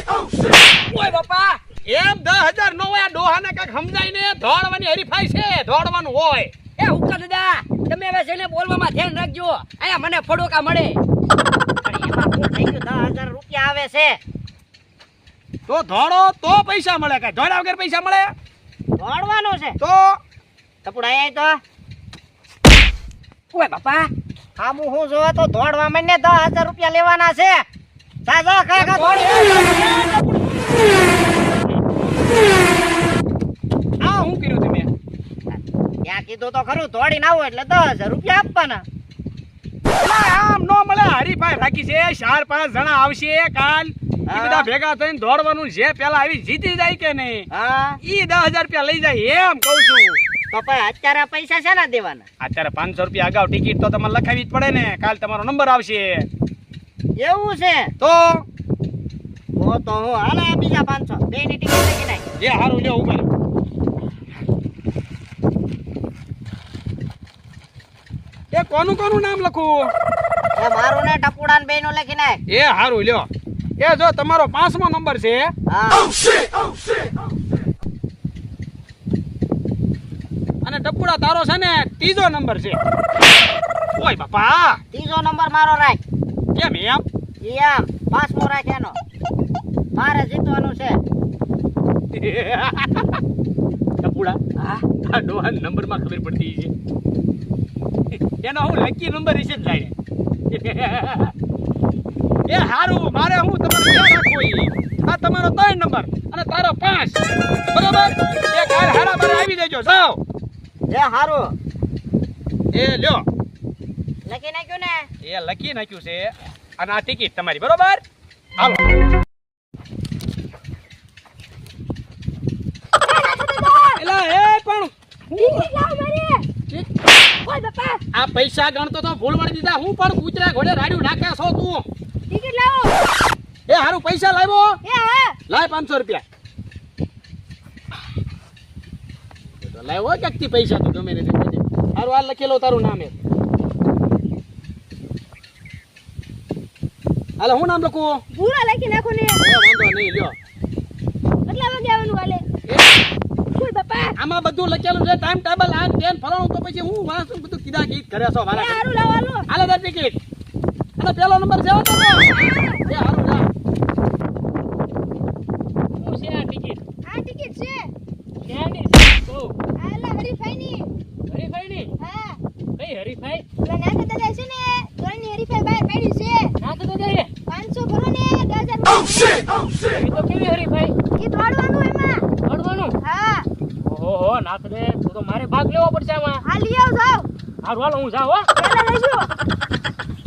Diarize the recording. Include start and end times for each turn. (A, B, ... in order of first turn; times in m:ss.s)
0:00.9-0:01.6 A
0:01.8-0:06.5 B
0:06.8-0:11.0 A
0:11.8-0:14.2 C
0:15.7-0:18.3 B
0:19.0-0:19.8 C
0:19.8-0:20.2 B
0:20.8-0:21.6 C
0:23.5-0:24.1 A
0:24.6-0:27.6 C
0:28.3-0:29.5 C
0:28.7-0:31.1 B
0:34.0-0:34.9 B
0:36.0-0:38.8 C
0:40.0-0:47.5 B
0:44.3-0:44.7 C
0:47.5-0:48.0 C
0:48.0-0:50.2 B
0:50.5-0:52.2 C
0:52.4-0:56.3 B
0:57.2-0:57.9 C
0:58.0-0:58.4 B
0:59.6-1:02.2 C
1:02.4-1:03.3 B
1:08.5-1:09.9 B
1:10.6-1:12.4 C
1:12.5-1:13.3 B
1:13.8-1:15.5 B
1:15.7-1:16.1 C
1:20.6-1:22.8 B
1:24.0-1:24.8 B
1:24.9-1:26.0 C
1:26.6-1:27.0 B
1:27.4-1:29.0 C
1:30.0-1:31.0 C
1:32.1-1:33.2 B
1:34.0-1:36.7 B
1:38.1-1:39.9 B
1:40.5-1:41.3 B
1:42.5-1:50.2 B
1:50.9-1:51.5 C
1:52.7-1:53.2 B
1:54.2-1:55.1 C
1:55.2-1:58.0 B
1:58.6-1:58.9 B
2:03.0-2:04.0 D
2:04.0-2:05.7 B
2:05.4-2:06.4 D
2:07.5-2:08.0 D
2:08.1-2:11.8 B
2:12.3-2:13.0 D
2:13.7-2:14.8 B
2:14.8-2:15.4 D
2:15.5-2:16.2 B
2:19.6-2:23.2 B
2:27.4-2:28.2 B
2:28.3-2:29.4 D
2:29.4-2:30.4 B
2:31.5-2:32.4 D
2:32.7-2:33.0 B
2:33.6-2:34.2 D
2:34.2-2:38.8 B
2:38.5-2:39.5 D
2:39.5-2:40.2 B
2:41.0-2:43.5 B
2:42.3-2:42.9 D
2:46.0-2:46.8 A
2:47.0-2:47.9 D
2:48.5-2:49.5 A
2:49.8-2:50.9 D
2:51.3-2:51.9 A
2:52.0-2:52.4 D
2:52.8-2:53.4 A
2:53.6-2:56.5 D
2:56.6-2:57.3 A
2:57.5-2:59.5 D
2:59.9-3:00.9 A
3:01.2-3:02.3 D
3:02.5-3:02.9 A
3:03.0-3:03.5 D
3:03.9-3:06.4 A
3:06.4-3:07.3 D
3:07.6-3:08.5 A
3:08.6-3:09.3 D